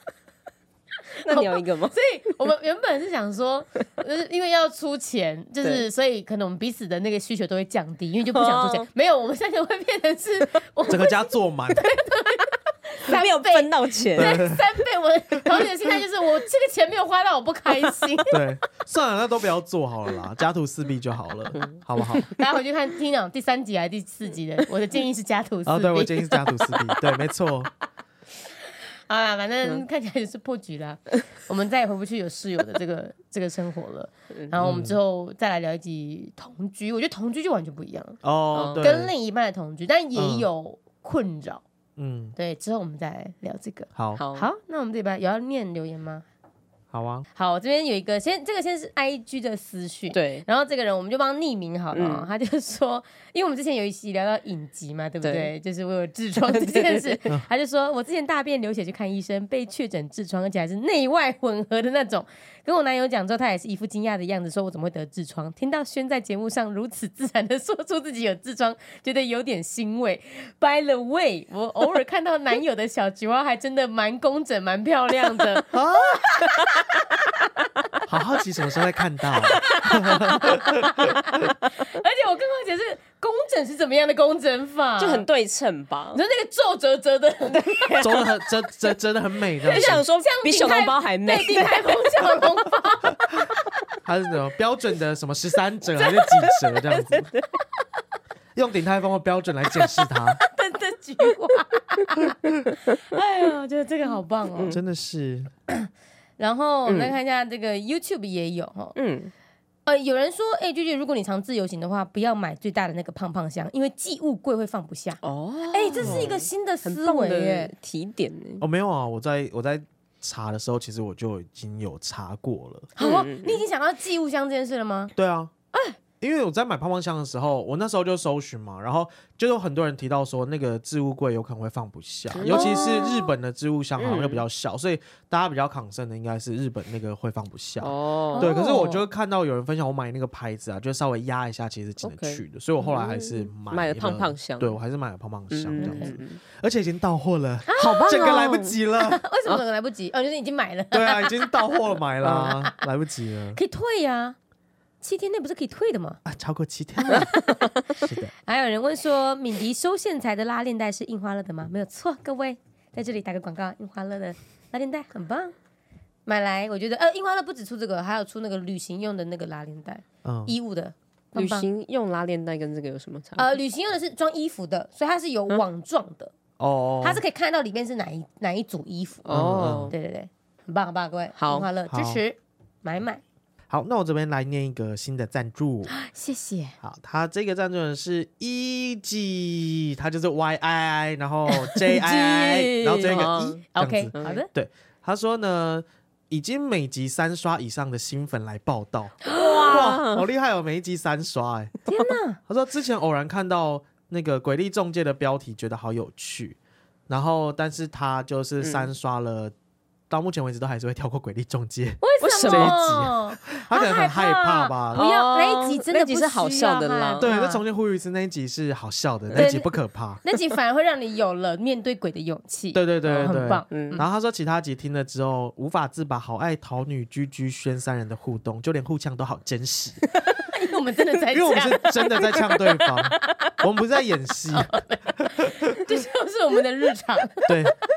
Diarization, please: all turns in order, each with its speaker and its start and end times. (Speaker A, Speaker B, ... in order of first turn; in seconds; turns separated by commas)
Speaker A: 1.2-1.9, Speaker B: 1.3-18.3, Speaker A: 8.3-8.9, Speaker C: 10.9-11.9, Speaker A: 13.1-14.4, Speaker C: 14.2-14.8, Speaker C: 18.3-22.3, Speaker A: 21.5-22.3, Speaker B: 22.2-26.9, Speaker C: 25.6-27.7, Speaker B: 29.1-38.2, Speaker C: 34.6-35.0, Speaker C: 38.2-39.1, Speaker A: 38.5-38.9, Speaker B: 38.8-41.6, Speaker C: 40.1-40.5, Speaker C: 42.0-42.3, Speaker B: 42.4-46.2, Speaker C: 43.9-44.2, Speaker A: 44.2-44.5, Speaker C: 46.9-47.3, Speaker B: 47.3-77.0, Speaker A: 50.1-50.5, Speaker A: 51.9-52.3, Speaker A: 55.2-55.5, Speaker A: 56.4-57.2, Speaker C: 75.7-76.5, Speaker C: 78.1-81.4, Speaker B: 79.6-85.2, Speaker A: 85.0-86.2, Speaker B: 86.1-88.0, Speaker A: 87.5-88.3, Speaker C: 88.0-90.0, Speaker A: 89.6-91.8, Speaker B: 89.7-93.4, Speaker C: 94.0-97.3, Speaker A: 96.4-97.5, Speaker C: 98.5-100.4, Speaker B: 99.7-104.8, Speaker C: 104.7-105.5, Speaker B: 105.7-109.0, Speaker A: 106.8-107.1, Speaker A: 109.0-109.3, Speaker B: 109.8-115.2, Speaker A: 115.2-118.6, Speaker B: 115.7-117.7, Speaker C: 116.0-116.3, Speaker C: 118.6-122.9, Speaker B: 123.0-125.1, Speaker A: 123.0-123.6, Speaker C: 125.1-125.5, Speaker C: 126.2-149.2, Speaker A: 132.3-132.9, Speaker B: 132.4-133.3, Speaker A: 134.0-134.4, Speaker A: 137.8-139.0, Speaker B: 138.3-138.6, Speaker A: 142.0-144.8, Speaker A: 145.5-146.4, Speaker B: 145.7-146.2, Speaker B: 147.7-148.2, Speaker A: 147.8-148.8, Speaker B: 148.9-152.7, Speaker C: 150.9-153.6, Speaker A: 152.2-152.5, Speaker B: 153.5-154.3, Speaker B: 155.0-156.2, Speaker C: 156.2-157.3, Speaker B: 157.0-157.7, Speaker C: 158.0-158.3, Speaker B: 158.4-165.5, Speaker B: 166.2-171.7, Speaker C: 170.2-170.5, Speaker A: 171.3-173.5, Speaker B: 173.4-176.3, Speaker C: 176.6-177.2, Speaker B: 177.0-183.2, Speaker A: 179.2-179.9, Speaker C: 179.3-179.9, Speaker A: 181.4-181.7, Speaker C: 181.9-182.2, Speaker C: 183.7-185.9, Speaker B: 185.9-186.8, Speaker C: 186.8-201.7, Speaker B: 191.5-194.5, Speaker A: 193.0-193.6, Speaker A: 194.1-194.4, Speaker B: 199.2-199.9, Speaker A: 199.3-200.2, Speaker B: 201.9-202.4, Speaker C: 202.5-206.6, Speaker C: 207.1-209.5, Speaker A: 208.6-208.9, Speaker C: 210.1-215.0, Speaker B: 212.0-217.6, Speaker A: 212.2-213.0, Speaker A: 214.9-217.3, Speaker C: 217.2-220.2, Speaker B: 219.3-219.7, Speaker B: 220.2-224.1, Speaker C: 222.7-230.0, Speaker A: 223.1-224.0, Speaker B: 230.4-232.9, Speaker C: 231.3-235.8, Speaker B: 234.5-237.5, Speaker C: 237.4-237.8